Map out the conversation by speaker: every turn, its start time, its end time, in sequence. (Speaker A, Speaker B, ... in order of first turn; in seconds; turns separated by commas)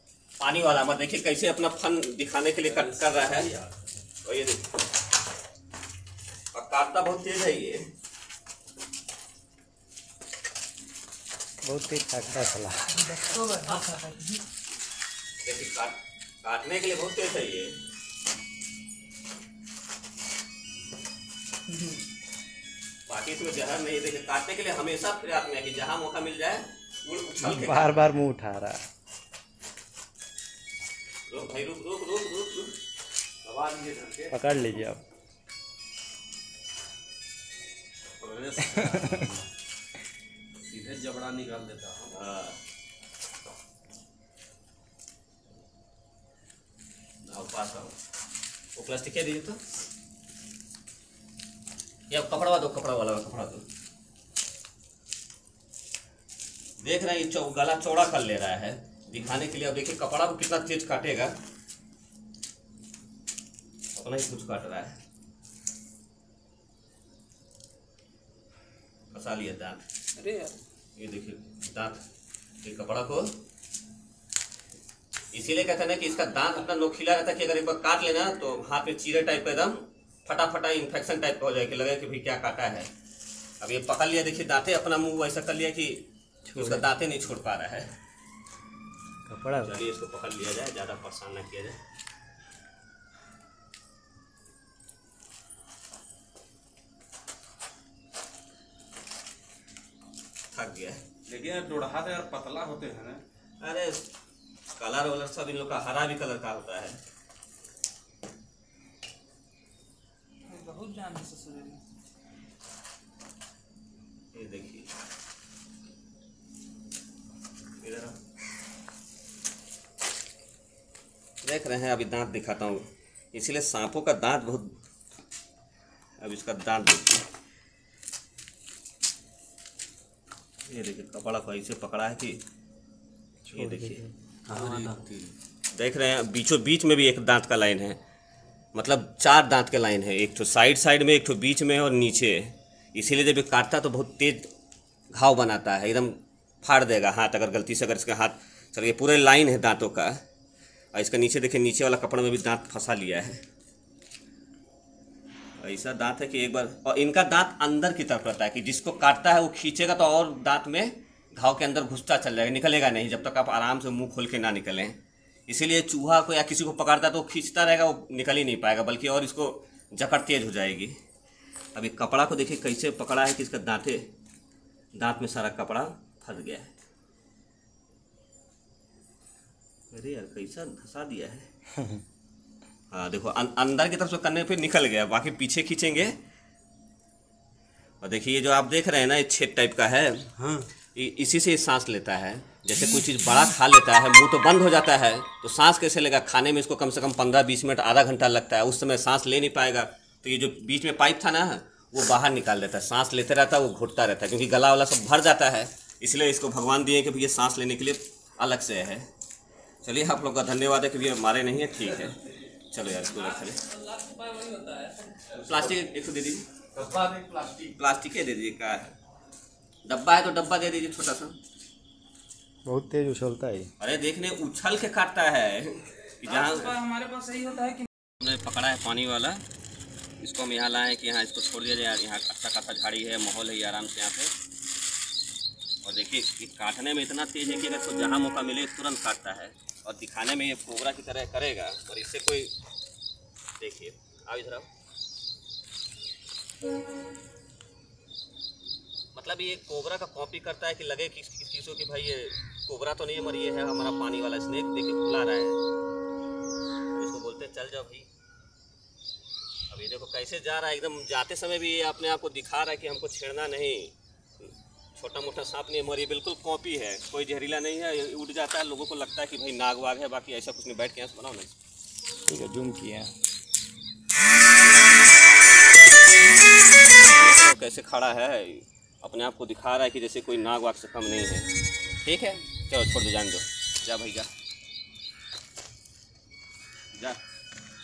Speaker A: 0.4-3.5, Speaker B: 2.6-3.8, Speaker A: 4.2-4.7, Speaker A: 6.5-7.9, Speaker C: 11.6-13.0, Speaker D: 13.0-14.4, Speaker A: 15.4-17.8, Speaker A: 23.1-28.1, Speaker C: 27.4-28.8, Speaker A: 31.3-32.8, Speaker B: 33.4-34.4, Speaker C: 34.3-35.0, Speaker B: 38.2-39.4, Speaker B: 40.7-42.1, Speaker A: 42.1-42.6, Speaker A: 47.2-47.9, Speaker A: 48.7-49.6, Speaker A: 52.1-53.7, Speaker A: 56.8-61.4, Speaker A: 64.0-65.0, Speaker A: 69.1-69.8, Speaker D: 70.2-70.5, Speaker A: 71.0-72.0, Speaker A: 72.6-73.3, Speaker A: 75.3-82.9, Speaker A: 83.6-87.9, Speaker C: 86.5-86.9, Speaker C: 89.3-89.7, Speaker A: 89.6-91.8, Speaker A: 100.5-101.0, Speaker B: 101.3-103.2, Speaker A: 103.6-104.1, Speaker A: 104.7-107.0, Speaker D: 110.5-111.8, Speaker A: 114.3-114.9, Speaker A: 117.8-118.2, Speaker A: 121.4-124.8, Speaker A: 126.2-127.2, Speaker A: 130.7-132.4, Speaker C: 133.4-134.1, Speaker A: 133.5-138.0, Speaker B: 134.5-135.0, Speaker A: 138.7-144.5, Speaker A: 145.1-150.2, Speaker A: 150.9-153.4, Speaker A: 155.6-171.0, Speaker A: 171.7-174.1, Speaker A: 174.9-176.7, Speaker A: 179.9-181.5, Speaker A: 182.9-186.2, Speaker A: 188.0-190.3, Speaker B: 190.4-190.7, Speaker A: 190.9-209.1, Speaker A: 209.8-212.2, Speaker A: 212.7-213.6, Speaker D: 213.2-215.2, Speaker A: 215.3-216.4, Speaker B: 216.8-217.7, Speaker A: 217.8-218.9, Speaker A: 219.8-221.3, Speaker C: 222.6-223.7, Speaker A: 223.8-226.8, Speaker D: 226.2-227.9, Speaker A: 228.2-229.4, Speaker A: 230.2-234.3, Speaker A: 235.8-242.5, Speaker A: 243.6-244.7, Speaker A: 249.1-255.6, Speaker A: 256.9-258.1, Speaker A: 259.7-271.5, Speaker C: 272.3-273.1, Speaker A: 277.1-281.5, Speaker A: 282.0-284.3